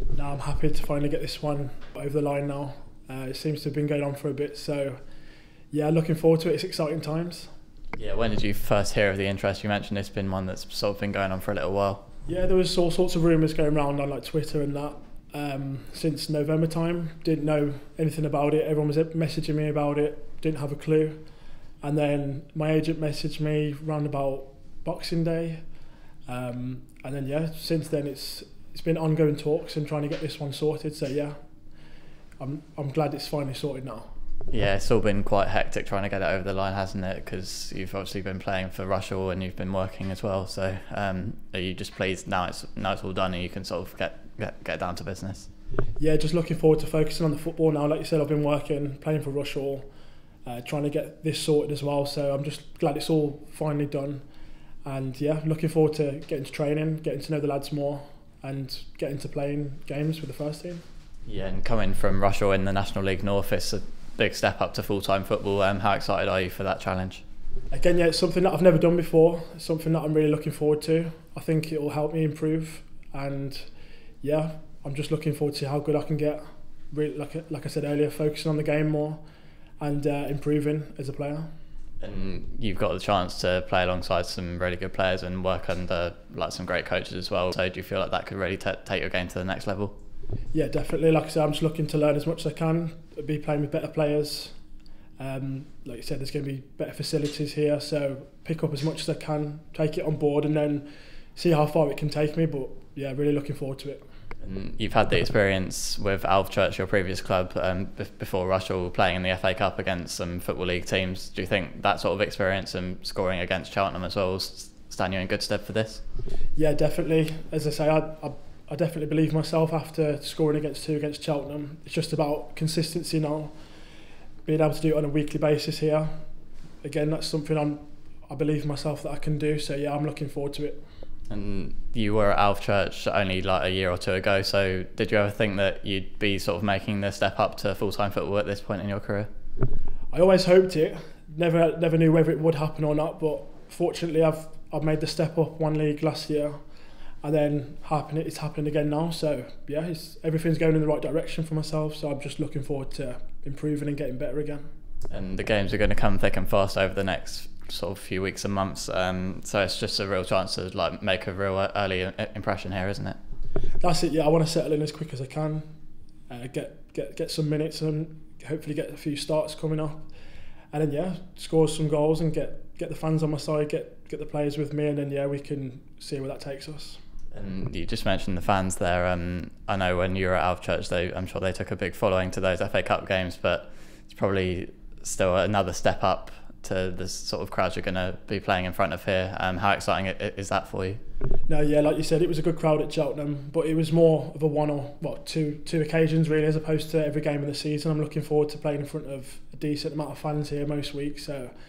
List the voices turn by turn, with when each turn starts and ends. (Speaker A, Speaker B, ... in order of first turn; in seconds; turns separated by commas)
Speaker A: 0.1-5.0, Speaker A: 5.7-7.5, Speaker B: 8.0-12.0, Speaker A: 12.3-21.2, Speaker A: 21.8-25.6, Speaker A: 26.3-31.4, Speaker A: 32.4-34.1, Speaker B: 34.5-45.5, Speaker A: 46.0-49.9, Speaker A: 50.5-54.2, Speaker A: 54.9-60.8, Speaker B: 61.3-67.2, Speaker A: 67.7-73.7, Speaker A: 74.2-79.2, Speaker A: 79.8-81.5, Speaker B: 82.0-90.0, Speaker A: 90.5-94.6, Speaker A: 95.2-104.1, Speaker B: 104.4-116.0, Speaker A: 116.6-123.6, Speaker A: 124.5-126.2, Speaker A: 126.8-130.8, Speaker B: 131.3-139.3, Speaker A: 140.1-146.6, Speaker A: 147.2-154.7, Speaker B: 155.1-163.2, Speaker A: 163.8-165.7, Speaker A: 166.3-170.1, Speaker A: 170.7-177.0, Speaker B: 177.3-191.0, Speaker A: 191.5-201.5